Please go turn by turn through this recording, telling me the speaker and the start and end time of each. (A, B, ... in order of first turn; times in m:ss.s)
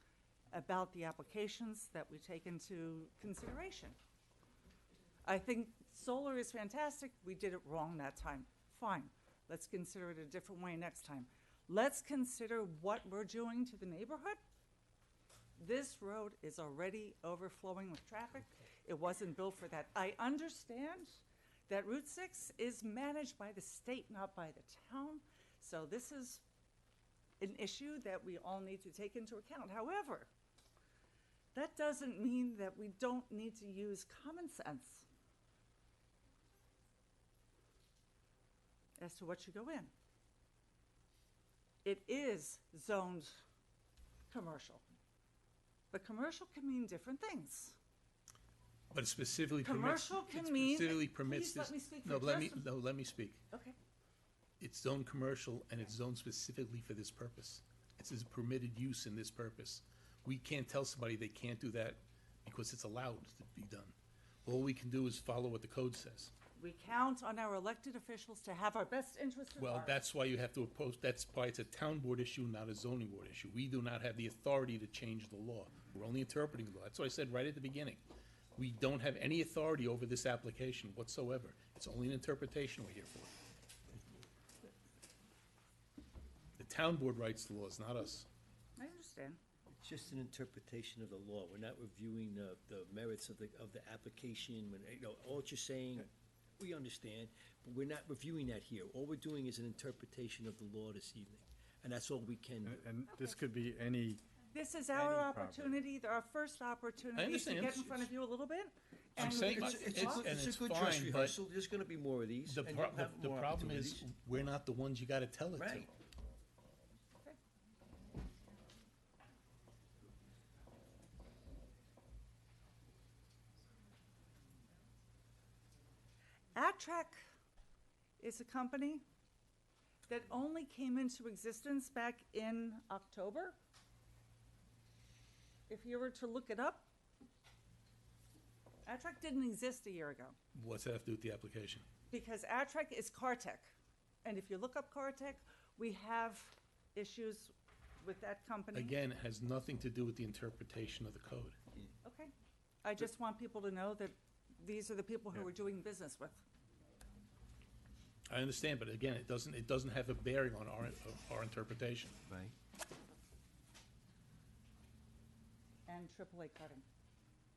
0:00.5-0:04.0 A
0:05.2-0:14.4 A
0:15.6-0:26.4 A
0:27.4-0:30.3 A
0:31.5-0:35.0 A
0:39.0-0:39.9 A
0:41.8-0:43.4 A
0:44.3-0:44.8 A
0:45.9-0:47.8 A
0:48.9-0:53.4 B
0:49.6-0:52.6 A
0:53.5-0:53.8 A
0:54.6-1:06.3 B
1:06.6-1:10.0 A
1:09.6-1:18.0 B
1:18.6-1:23.3 B
1:26.6-1:28.3 B
1:28.8-1:29.4 A
1:29.7-1:42.8 C
1:42.6-1:44.2 D
1:44.5-1:50.3 A
1:44.9-1:45.8 D
1:47.2-1:48.1 B
1:49.2-1:54.0 C
1:49.2-1:51.4 B
1:52.4-1:55.9 B
1:55.6-1:55.9 C
2:06.6-2:07.2 A
2:08.2-2:09.0 A
2:10.1-2:13.6 A
2:15.7-2:16.9 A
2:18.8-2:20.4 A
2:20.5-2:21.8 B
2:22.1-2:29.0 A
2:28.7-2:31.6 B
2:32.0-2:32.3 A
2:32.8-2:36.4 A
2:38.3-2:42.1 B
2:42.3-2:42.5 C
2:45.9-2:46.8 A